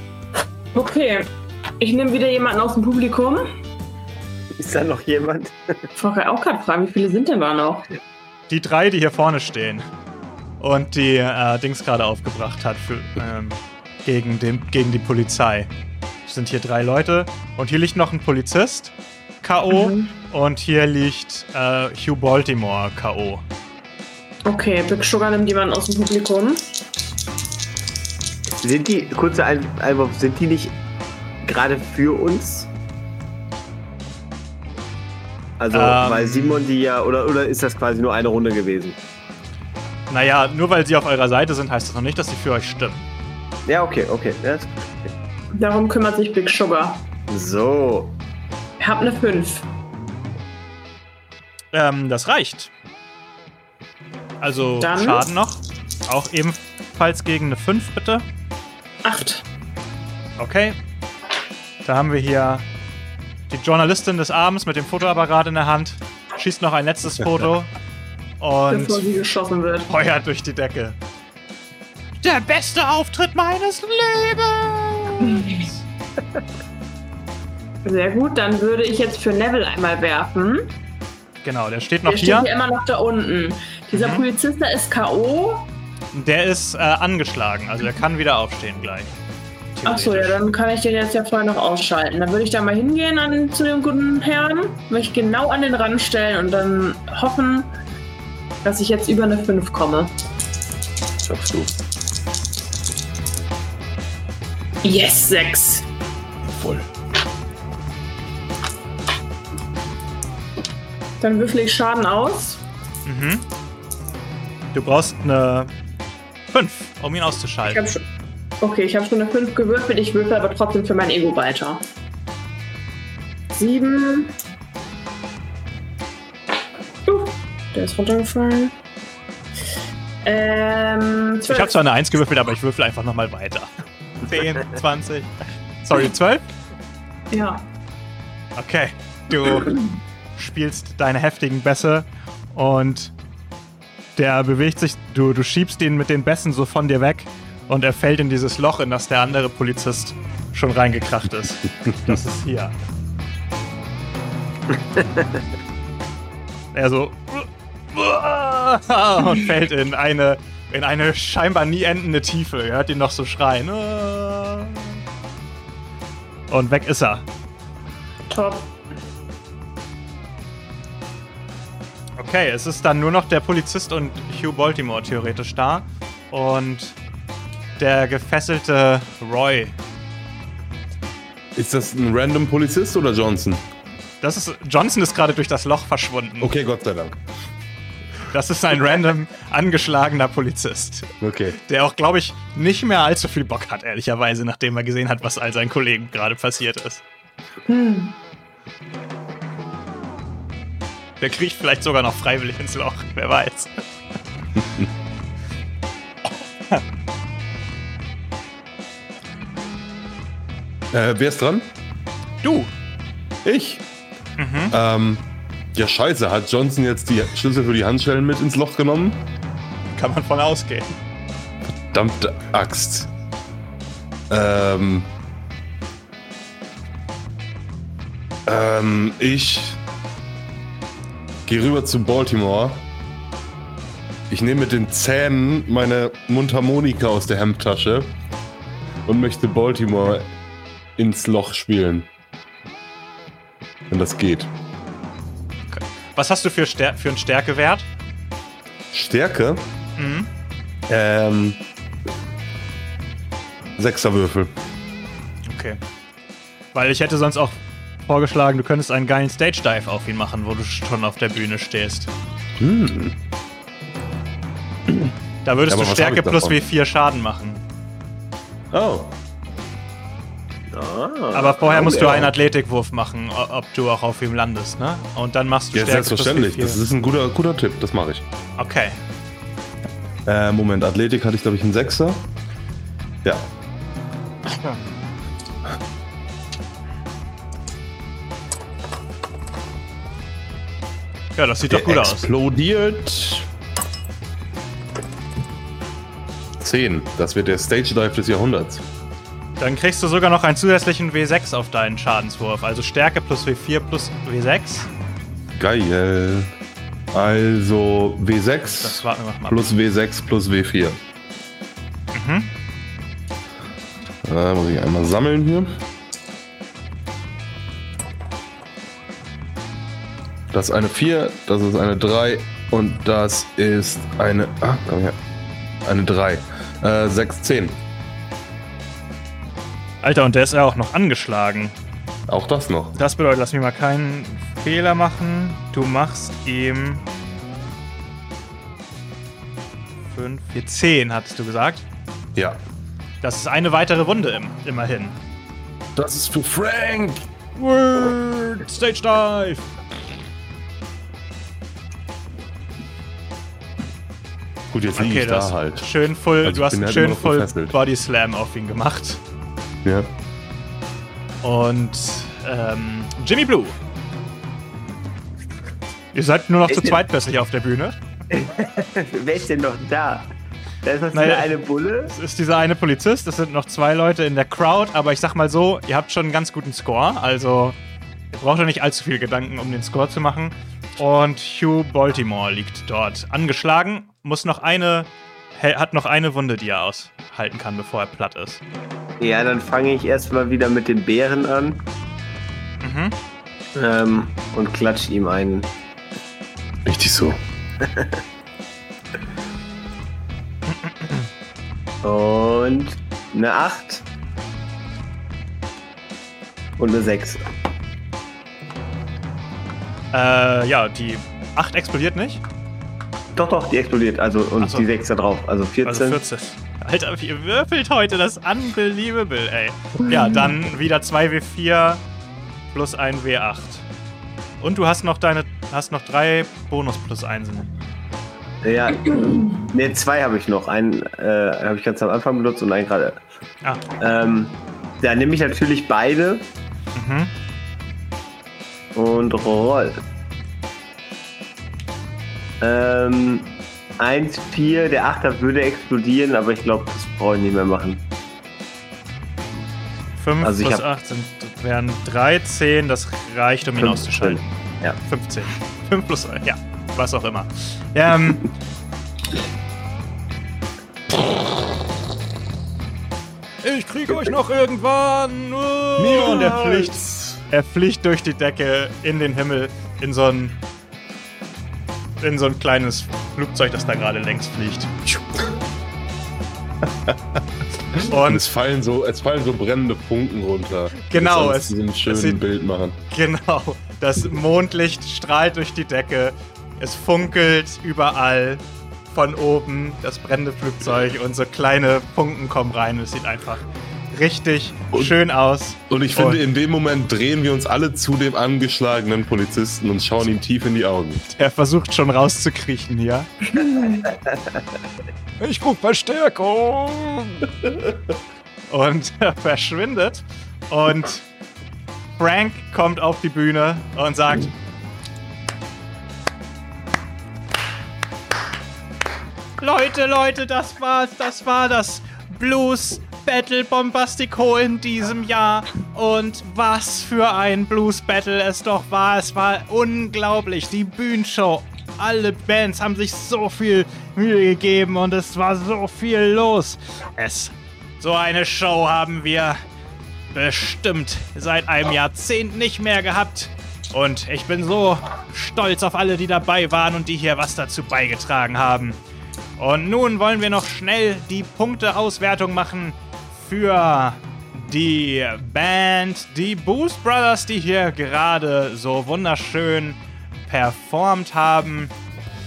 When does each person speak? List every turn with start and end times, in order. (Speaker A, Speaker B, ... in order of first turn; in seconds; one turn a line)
Speaker A: 0.7-1.3
Speaker A: 1.8-3.5
Speaker B: 4.5-5.8
Speaker A: 6.0-7.8
Speaker C: 8.5-9.8
Speaker C: 10.6-15.7
Speaker C: 16.2-23.4
Speaker A: 19.7-20.1
Speaker A: 24.4-26.8
Speaker B: 28.6-30.7
Speaker B: 31.4-32.7
Speaker B: 35.6-39.0
Speaker C: 35.7-36.7
Speaker C: 40.1-43.0
Speaker B: 43.7-45.1
Speaker A: 45.5-47.0
Speaker B: 47.3-48.1
Speaker A: 48.8-49.6
Speaker C: 51.7-52.7
Speaker C: 54.4-58.2
Speaker A: 54.8-55.2
Speaker A: 59.0-59.4
Speaker C: 60.4-60.8
Speaker C: 61.8-62.6
Speaker C: 63.5-67.7
Speaker C: 68.4-69.1
Speaker A: 68.7-69.9
Speaker C: 69.9-71.0
Speaker C: 72.2-75.7
Speaker A: 77.8-80.7
Speaker C: 81.4-82.5
Speaker A: 82.0-85.7
Speaker C: 83.9-84.2
Speaker C: 86.1-89.1
Speaker C: 89.7-90.4
Speaker A: 89.8-97.7
Speaker A: 98.6-100.1
Speaker D: 101.2-101.7
Speaker A: 104.8-105.8
Speaker D: 106.5-106.8
Speaker A: 111.2-112.6
Speaker C: 113.0-113.4
Speaker C: 114.7-115.7
Speaker C: 116.5-117.8
Speaker A: 117.7-118.0
Speaker A: 118.6-121.8
Speaker A: 123.5-124.3
Speaker A: 127.0-128.7
Speaker A: 130.2-131.8
Speaker C: 131.5-133.7
Speaker C: 134.2-136.4
Speaker A: 137.3-137.6
Speaker C: 138.6-139.8
Speaker C: 140.3-143.1
Speaker C: 144.2-152.7
Speaker C: 156.7-165.0
Speaker C: 166.5-167.2
Speaker A: 168.3-168.7
Speaker C: 172.2-176.9
Speaker C: 177.8-179.8
Speaker D: 181.6-183.6
Speaker C: 184.2-186.5
Speaker D: 186.4-187.2
Speaker C: 188.3-197.0
Speaker D: 191.2-191.6
Speaker A: 197.7-198.1
Speaker C: 201.2-203.8
Speaker D: 210.9-211.7
Speaker C: 212.4-212.7
Speaker D: 213.4-213.8
Speaker C: 214.4-214.7
Speaker D: 214.7-215.2
Speaker D: 215.7-219.2
Speaker C: 219.9-220.9
Speaker D: 221.9-223.1
Speaker D: 224.3-225.1
Speaker D: 228.5-229.8
Speaker D: 231.4-232.8
Speaker D: 234.3-238.1
Speaker D: 239.1-240.3
Speaker D: 241.0-242.1
Speaker D: 243.9-244.5
Speaker C: 245.7-247.8
Speaker D: 248.9-249.6
Speaker C: 250.0-250.3
Speaker D: 250.9-251.6
Speaker D: 253.8-254.5
Speaker C: 255.5-255.8
Speaker C: 256.7-262.1
Speaker D: 262.6-263.1
Speaker C: 265.4-267.6
Speaker D: 265.7-266.6
Speaker D: 268.7-269.1
Speaker B: 270.7-272.3
Speaker C: 271.3-276.8
Speaker D: 271.8-272.3
Speaker D: 275.7-278.2
Speaker C: 278.6-279.0
Speaker D: 280.2-282.2
Speaker C: 291.4-292.2
Speaker D: 291.6-293.5
Speaker D: 296.6-298.8
Speaker C: 299.6-304.9
Speaker D: 305.6-306.5
Speaker D: 307.1-311.0
Speaker C: 308.6-309.7
Speaker C: 312.1-312.5
Speaker D: 314.2-315.7
Speaker D: 320.5-325.2
Speaker D: 325.8-327.8
Speaker C: 330.0-331.7
Speaker D: 332.3-332.9
Speaker C: 332.9-337.0
Speaker C: 340.1-341.8
Speaker C: 343.2-345.1
Speaker D: 345.9-347.2
Speaker C: 347.6-349.7
Speaker D: 354.7-355.9
Speaker C: 354.9-359.2
Speaker D: 356.4-357.7
Speaker C: 361.4-363.8
Speaker C: 366.1-367.9
Speaker B: 366.7-367.0
Speaker B: 368.3-370.3
Speaker B: 370.8-372.1
Speaker C: 371.1-371.5
Speaker C: 372.1-377.8
Speaker C: 378.3-388.6
Speaker B: 389.2-391.8
Speaker C: 392.8-393.1
Speaker B: 393.8-395.7
Speaker D: 396.8-397.4
Speaker B: 397.8-398.2
Speaker C: 400.8-401.3
Speaker B: 402.0-404.0
Speaker B: 406.8-407.4
Speaker C: 410.1-412.4
Speaker B: 413.3-416.2
Speaker C: 414.6-414.9
Speaker C: 415.8-422.0
Speaker C: 422.7-423.8
Speaker C: 424.6-427.7
Speaker B: 428.6-433.2
Speaker B: 434.0-436.4
Speaker C: 436.9-437.3
Speaker B: 438.9-440.0
Speaker B: 442.6-448.0
Speaker C: 450.2-454.4
Speaker B: 450.4-450.8
Speaker B: 453.8-455.0
Speaker C: 455.0-458.5
Speaker C: 463.6-470.6
Speaker D: 466.0-467.4
Speaker C: 472.2-475.2
Speaker D: 477.9-483.0
Speaker C: 478.0-478.5
Speaker C: 481.1-482.4
Speaker C: 483.1-496.4
Speaker D: 495.9-501.2
Speaker C: 501.3-504.0
Speaker C: 505.4-507.5
Speaker C: 508.7-511.2
Speaker C: 512.2-514.5
Speaker C: 519.6-539.6
Speaker C: 540.3-549.0
Speaker C: 549.6-561.9